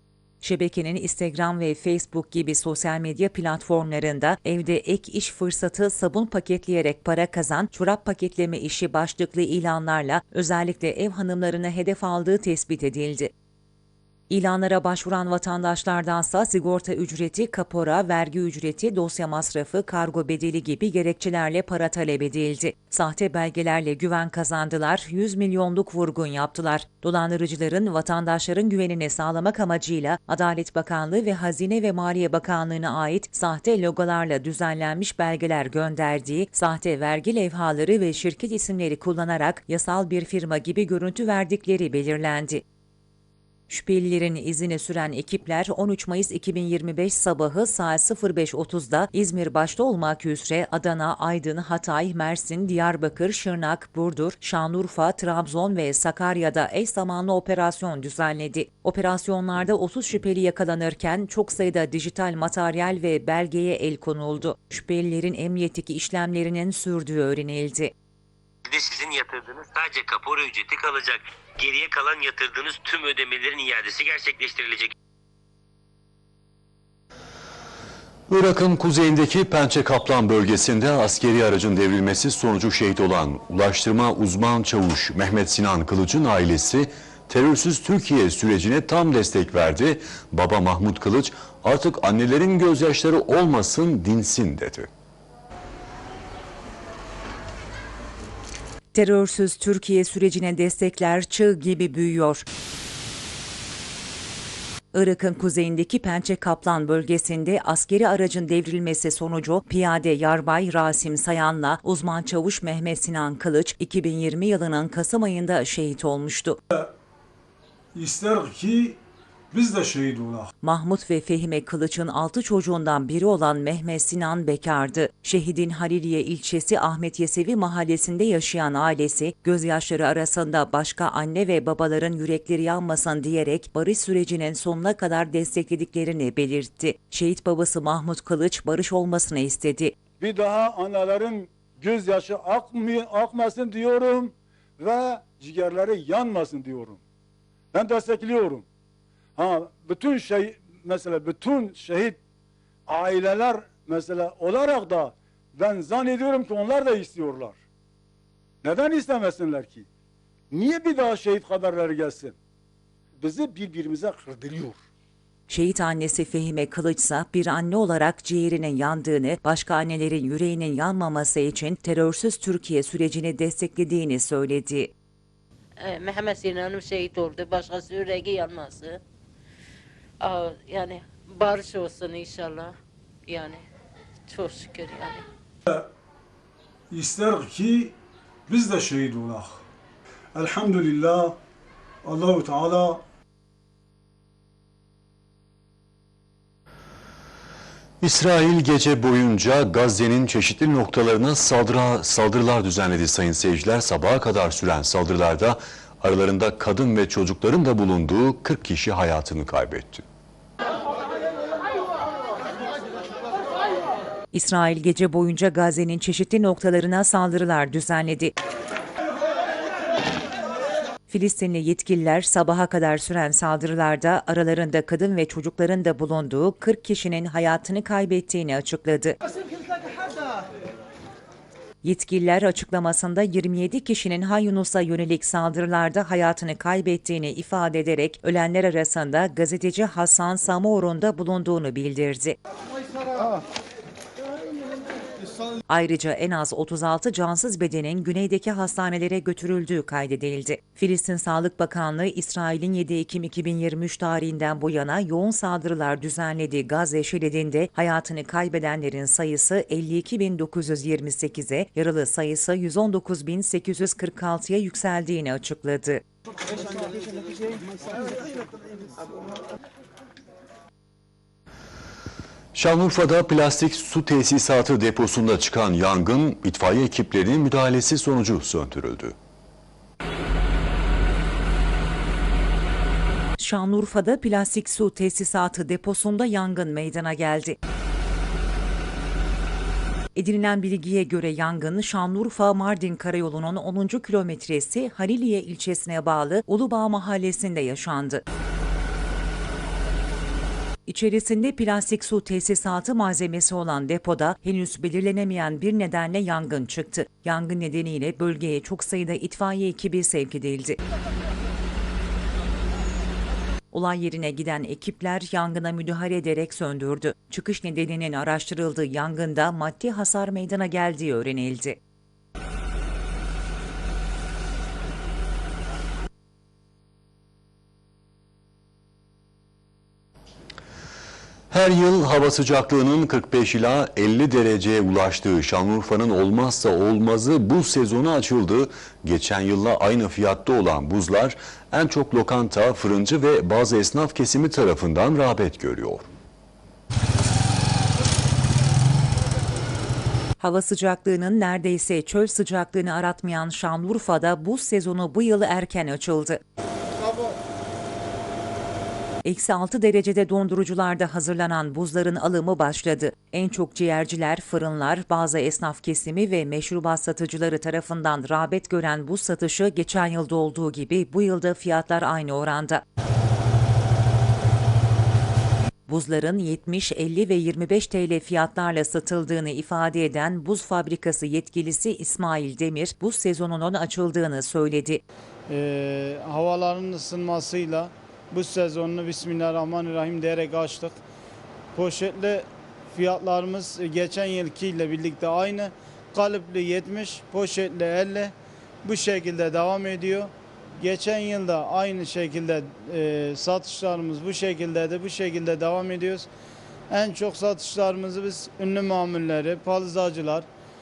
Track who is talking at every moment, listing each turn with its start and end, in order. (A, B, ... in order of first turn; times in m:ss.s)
0:00.4-0:13.3 A
0:14.3-0:42.6 A
0:43.7-1:07.9 A
1:08.6-1:14.9 B
1:18.3-1:34.9 C
1:38.9-1:42.4 A
1:44.9-1:56.6 A
1:58.0-1:59.0 D
1:59.5-2:00.5 D
2:00.6-2:19.9 A
2:20.2-2:27.0 D
2:27.7-2:28.7 D
2:29.4-2:32.2 D
2:32.9-2:37.6 D
2:38.6-2:39.9 D
2:40.5-2:42.4 D
2:43.2-2:44.8 D
2:45.5-2:54.9 A
2:55.8-2:59.0 E
3:00.2-3:02.8 E
3:03.3-3:03.6 E
3:04.3-3:05.2 E
3:06.9-3:08.0 D
3:08.5-3:09.6 D
3:10.4-3:11.4 D
3:12.0-3:13.0 D
3:18.0-3:30.0 C
3:34.3-3:38.3 A
3:41.1-3:49.2 A
3:51.8-4:02.4 A
4:05.7-4:26.0 A
4:32.6-4:39.2 C
4:43.4-4:47.6 A
4:50.2-4:58.2 A
5:00.9-5:10.8 A
5:13.7-5:21.8 A
5:31.5-5:46.1 C
5:50.4-5:56.4 A
5:59.2-6:12.8 A
6:15.9-6:25.0 A
6:25.5-6:31.0 F
6:31.8-6:46.3 F
6:46.9-6:50.5 F